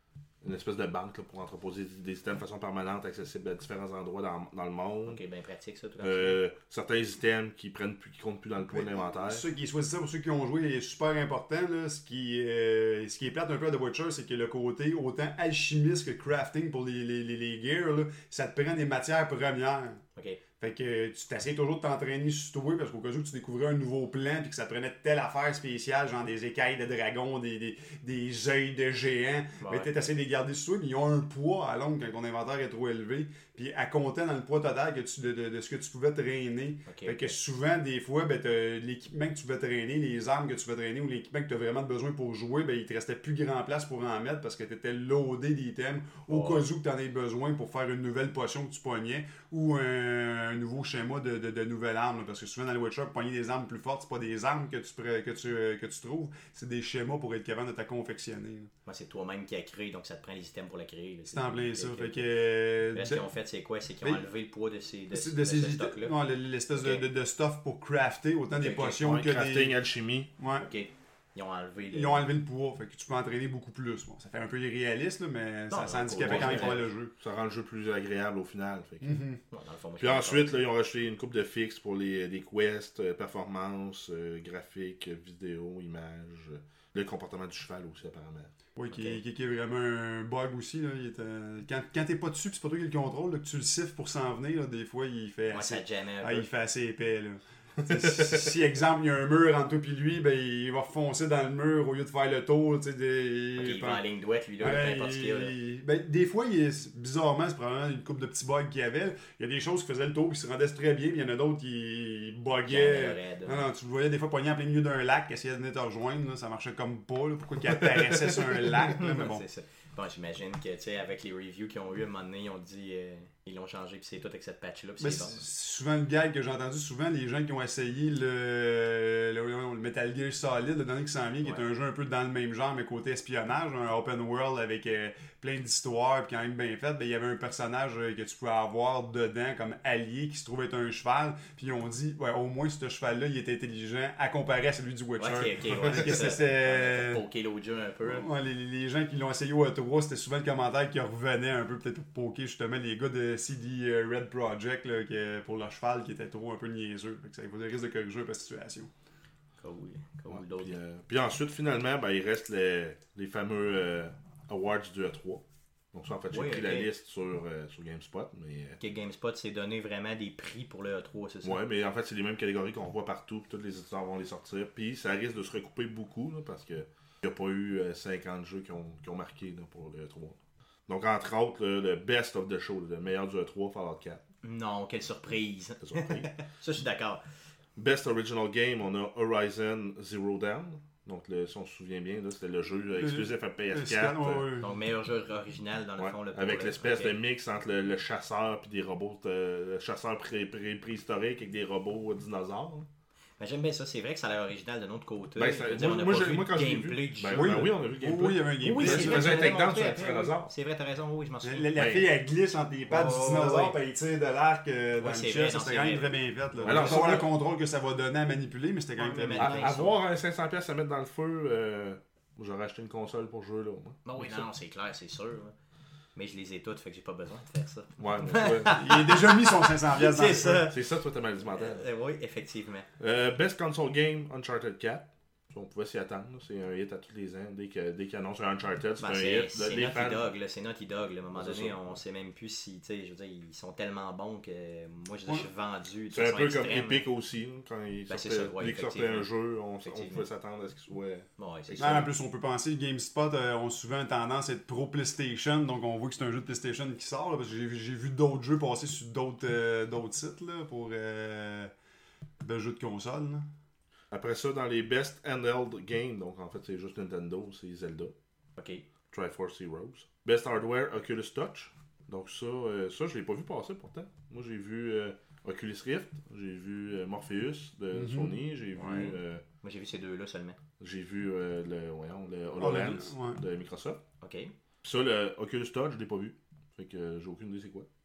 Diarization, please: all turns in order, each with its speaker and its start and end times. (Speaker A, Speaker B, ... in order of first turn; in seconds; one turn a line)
Speaker A: 0.4-5.2
Speaker B: 5.0-6.4
Speaker A: 6.0-9.4
Speaker C: 8.7-20.0
Speaker B: 20.1-20.4
Speaker C: 20.6-58.7
Speaker B: 29.6-29.9
Speaker B: 36.9-37.3
Speaker B: 46.3-46.6
Speaker B: 58.9-62.3
Speaker C: 61.3-63.2
Speaker B: 62.9-66.1
Speaker C: 65.1-69.8
Speaker B: 66.8-67.0
Speaker B: 68.6-69.0
Speaker A: 68.8-70.3
Speaker C: 70.4-70.7
Speaker B: 70.6-72.3
Speaker C: 71.9-77.1
Speaker B: 75.7-76.9
Speaker A: 76.2-79.2
Speaker C: 79.0-79.4
Speaker B: 79.5-80.5
Speaker A: 80.0-88.5
Speaker C: 88.8-104.0
Speaker B: 88.9-89.2
Speaker B: 95.5-96.5
Speaker A: 97.9-98.3
Speaker B: 103.6-105.5
Speaker C: 104.6-119.4
Speaker B: 112.7-113.7
Speaker A: 117.9-118.5
Speaker B: 118.8-125.4
Speaker C: 125.0-147.2
Speaker B: 145.2-148.2
Speaker C: 148.1-158.9
Speaker B: 159.6-160.8
Speaker A: 160.3-168.8
Speaker B: 166.3-166.9
Speaker B: 168.8-171.6
Speaker A: 171.4-184.2
Speaker B: 184.4-187.2
Speaker A: 185.8-186.3
Speaker A: 187.8-194.5
Speaker C: 193.0-194.7
Speaker B: 194.6-197.2
Speaker A: 196.0-202.9
Speaker B: 203.4-207.7
Speaker A: 205.4-210.5
Speaker C: 207.3-209.4
Speaker B: 208.6-212.0
Speaker C: 211.4-219.7
Speaker A: 211.8-212.1
Speaker B: 212.9-213.7
Speaker B: 215.0-217.2
Speaker A: 216.6-217.3
Speaker B: 219.0-220.0
Speaker A: 219.4-224.4
Speaker B: 224.0-225.5
Speaker B: 226.2-230.8
Speaker A: 228.0-228.9
Speaker C: 228.7-230.7
Speaker A: 230.7-231.8
Speaker B: 231.5-232.9
Speaker A: 233.0-240.3
Speaker B: 239.0-247.0
Speaker A: 241.3-241.9
Speaker A: 246.1-252.1
Speaker B: 248.1-249.3
Speaker B: 249.8-250.2
Speaker B: 251.4-252.1
Speaker C: 251.8-261.7
Speaker C: 262.4-263.4
Speaker A: 264.1-268.1
Speaker B: 268.6-268.8
Speaker A: 269.1-279.4
Speaker C: 277.9-278.4
Speaker B: 278.8-280.6
Speaker A: 280.8-284.0
Speaker C: 282.6-283.4
Speaker B: 284.2-284.5
Speaker A: 284.8-287.9